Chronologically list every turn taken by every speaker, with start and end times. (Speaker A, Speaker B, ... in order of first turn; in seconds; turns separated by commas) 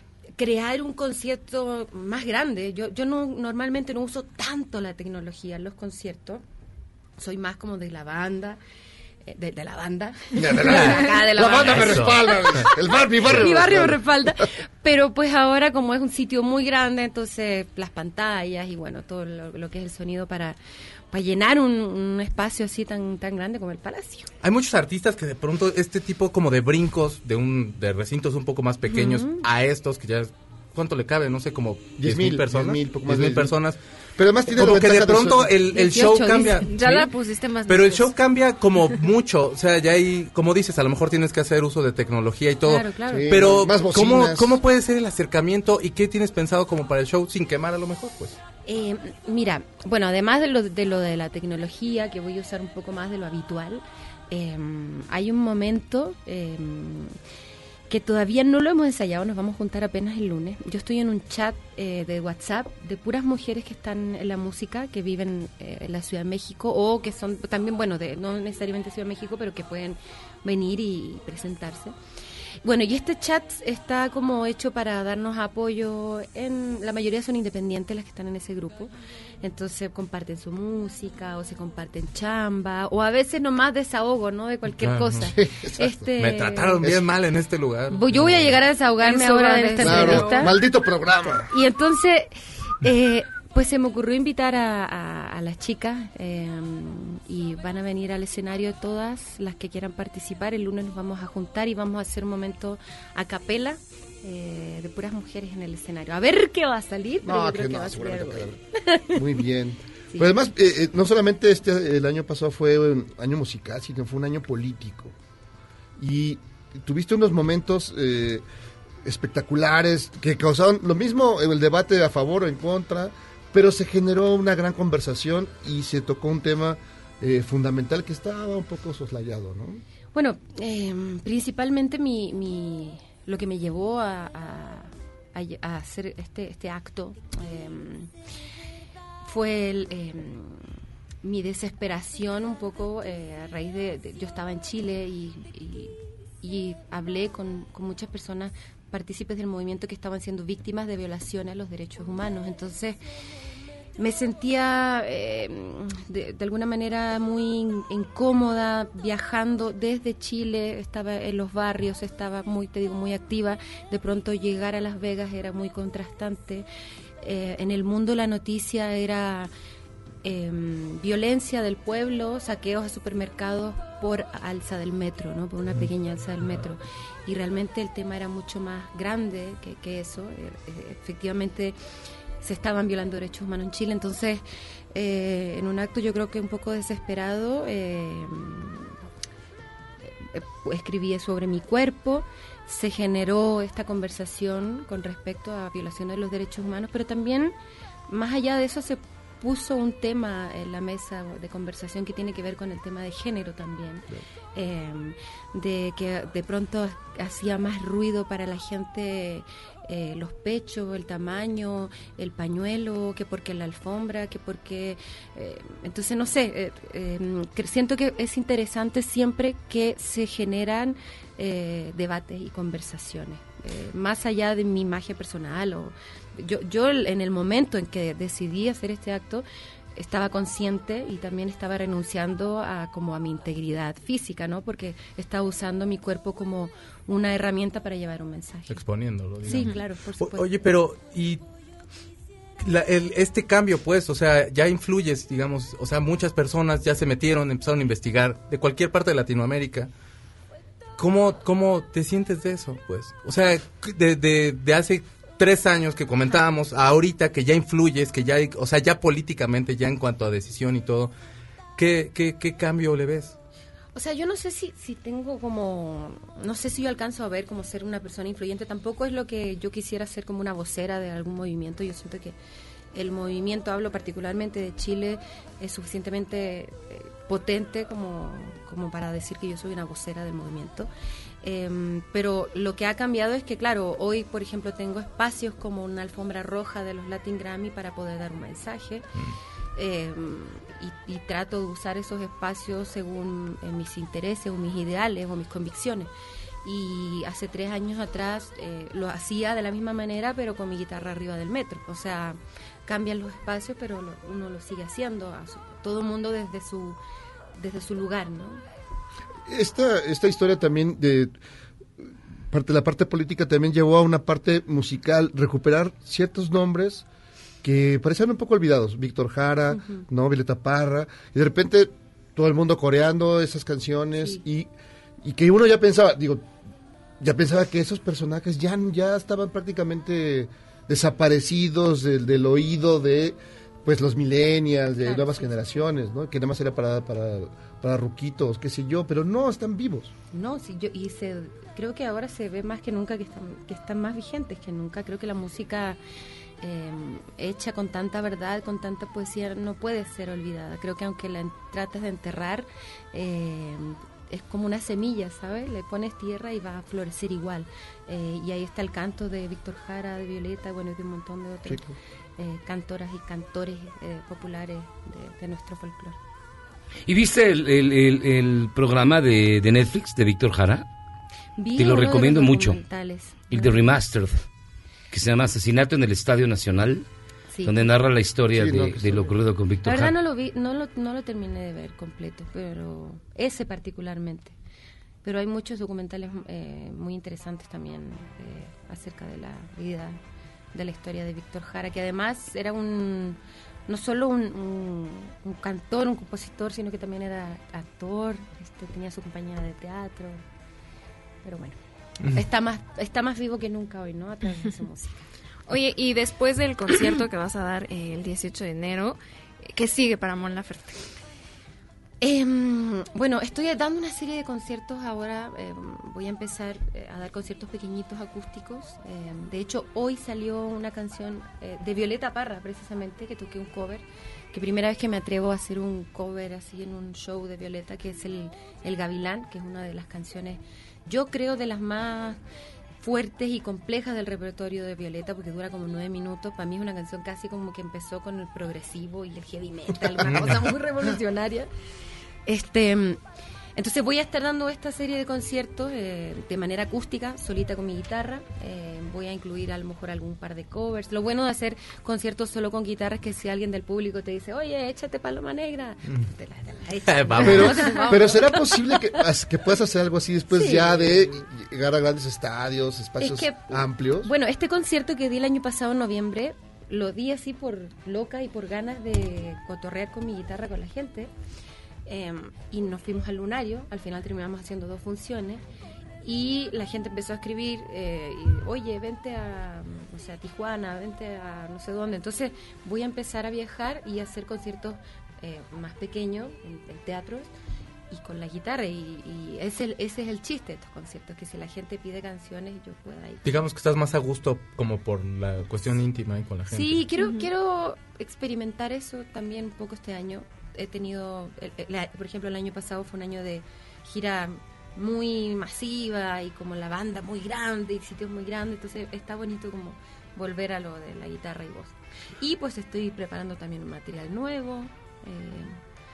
Speaker A: 0.4-6.4, Speaker A: 7.2-8.6, Speaker A: 9.3-20.6, Speaker B: 10.3-14.0, Speaker C: 11.7-12.2, Speaker A: 21.1-24.3, Speaker C: 24.4-33.8, Speaker A: 28.9-29.4, Speaker B: 32.0-33.5, Speaker B: 34.2-35.6, Speaker C: 34.5-37.1, Speaker A: 35.7-36.6, Speaker D: 36.6-38.1, Speaker C: 37.7-48.4, Speaker A: 42.6-43.5, Speaker B: 43.1-44.6, Speaker A: 48.6-57.1, Speaker A: 57.9-71.9, Speaker A: 72.6-86.9, Speaker C: 84.8-85.3, Speaker B: 85.3-86.0, Speaker C: 86.2-88.6, Speaker A: 87.9-90.5, Speaker D: 89.0-90.5, Speaker B: 89.8-91.5, Speaker A: 91.5-109.3, Speaker B: 107.2-108.6, Speaker B: 109.1-115.1, Speaker A: 110.1-110.4, Speaker B: 116.0-118.4, Speaker B: 119.0-129.8, Speaker A: 130.1-138.1, Speaker A: 139.2-140.7, Speaker A: 141.2-153.0, Speaker A: 154.0-166.7, Speaker A: 167.2-169.5, Speaker A: 170.2-181.8, Speaker A: 182.4-188.9, Speaker A: 190.0-197.5, Speaker A: 198.1-229.4, Speaker A: 230.0-238.8, Speaker C: 238.7-241.4, Speaker A: 239.4-240.6, Speaker C: 242.6-249.9, Speaker C: 251.0-261.1, Speaker C: 261.8-263.3, Speaker A: 263.9-272.3, Speaker A: 272.9-280.9, Speaker A: 281.4-289.1, Speaker A: 289.8-296.1, Speaker A: 296.6-307.0, Speaker A: 307.6-308.6, Speaker B: 309.5-311.3, Speaker B: 312.0-317.1, Speaker B: 317.6-324.7, Speaker A: 319.7-320.1, Speaker A: 324.1-324.4, Speaker B: 325.2-326.5, Speaker B: 327.2-340.1, Speaker A: 335.0-335.5, Speaker A: 340.3-346.0, Speaker A: 346.6-366.2, Speaker E: 367.1-370.9, Speaker A: 371.6-373.8, Speaker E: 371.8-372.8, Speaker E: 373.5-374.4, Speaker E: 375.1-377.1, Speaker A: 377.5-377.8, Speaker E: 377.6-380.1, Speaker B: 378.5-379.3, Speaker A: 379.8-384.5, Speaker A: 385.2-390.2, Speaker A: 390.7-400.4, Speaker A: 401.4-401.8, Speaker A: 402.3-405.2, Speaker D: 405.7-409.2, Speaker D: 409.7-411.0, Speaker A: 412.2-432.4, Speaker A: 433.0-441.7, Speaker A: 442.4-443.2, Speaker A: 443.8-459.2, Speaker C: 456.1-456.3, Speaker C: 457.1-457.9, Speaker B: 457.4-464.3, Speaker A: 460.5-461.3, Speaker A: 463.2-471.3, Speaker A: 472.1-475.6, Speaker A: 476.2-487.5, Speaker A: 488.1-493.4, Speaker C: 493.4-497.0, Speaker A: 496.7-515.8